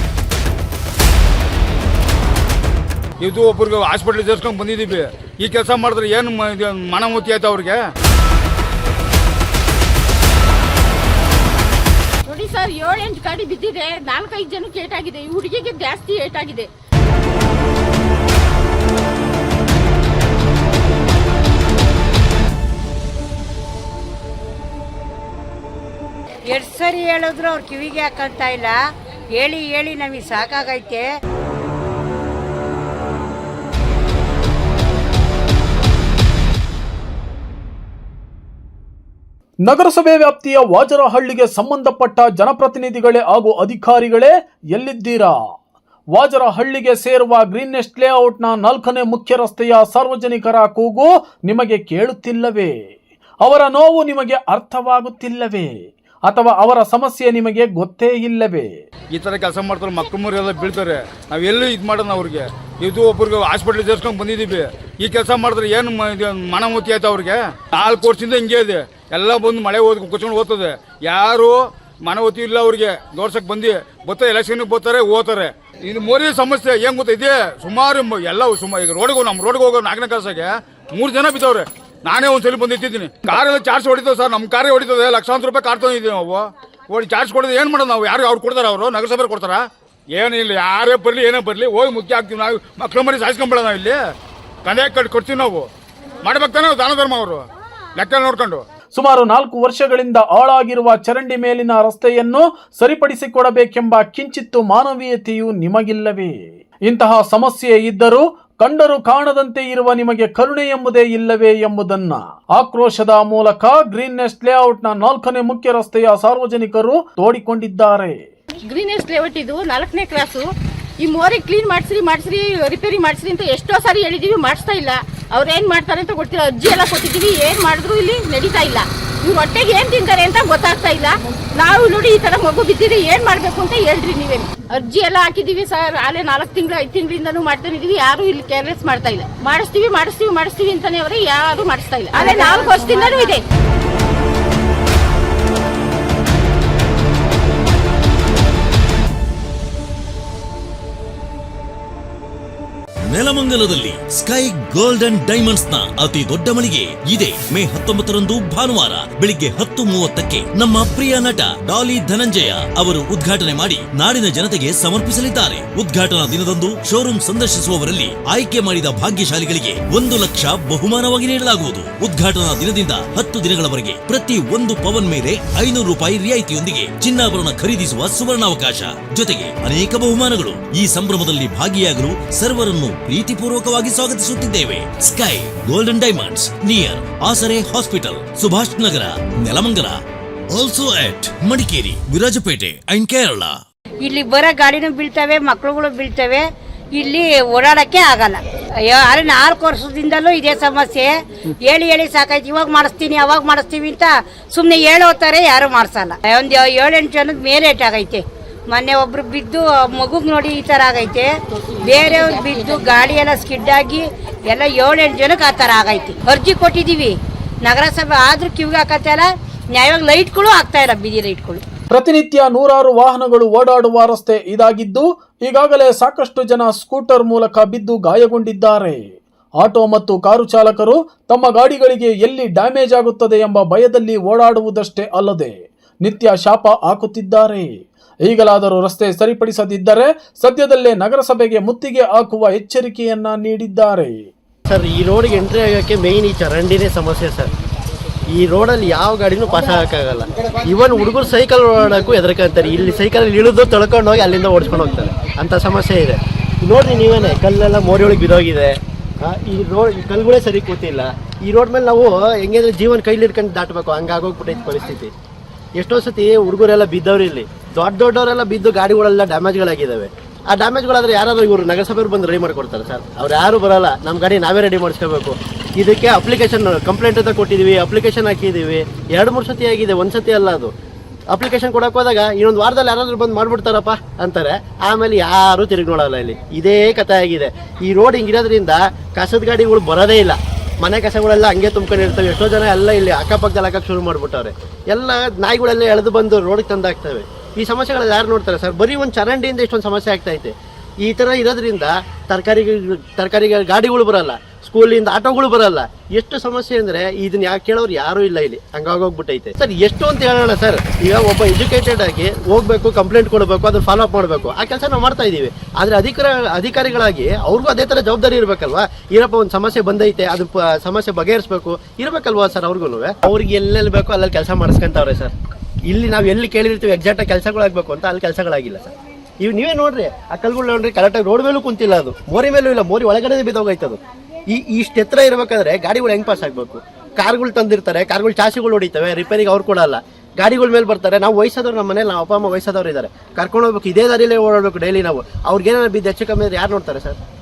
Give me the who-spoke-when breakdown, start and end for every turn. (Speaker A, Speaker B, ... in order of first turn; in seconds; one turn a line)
Speaker A: 3.2-7.8
Speaker B: 12.3-16.7
Speaker C: 26.5-28.8
Speaker C: 29.3-31.1
Speaker D: 39.6-45.4
Speaker D: 46.1-52.7
Speaker D: 53.4-55.7
Speaker D: 56.2-58.8
Speaker A: 59.1-89.6
Speaker A: 90.1-94.0
Speaker A: 94.6-95.7
Speaker A: 96.2-97.5
Speaker A: 98.0-98.6
Speaker D: 98.9-106.3
Speaker D: 106.8-118.2
Speaker B: 118.7-120.4
Speaker B: 121.0-143.4
Speaker C: 142.4-142.7
Speaker E: 153.1-189.9
Speaker E: 190.5-193.6
Speaker C: 194.0-211.3
Speaker C: 211.8-221.6
Speaker B: 212.0-212.3
Speaker D: 221.9-229.0
Speaker D: 229.6-237.7
Speaker D: 238.3-244.3
Speaker F: 244.7-247.5
Speaker F: 248.3-265.1
Speaker F: 265.8-280.7
Speaker F: 281.3-325.3
Speaker F: 325.9-347.2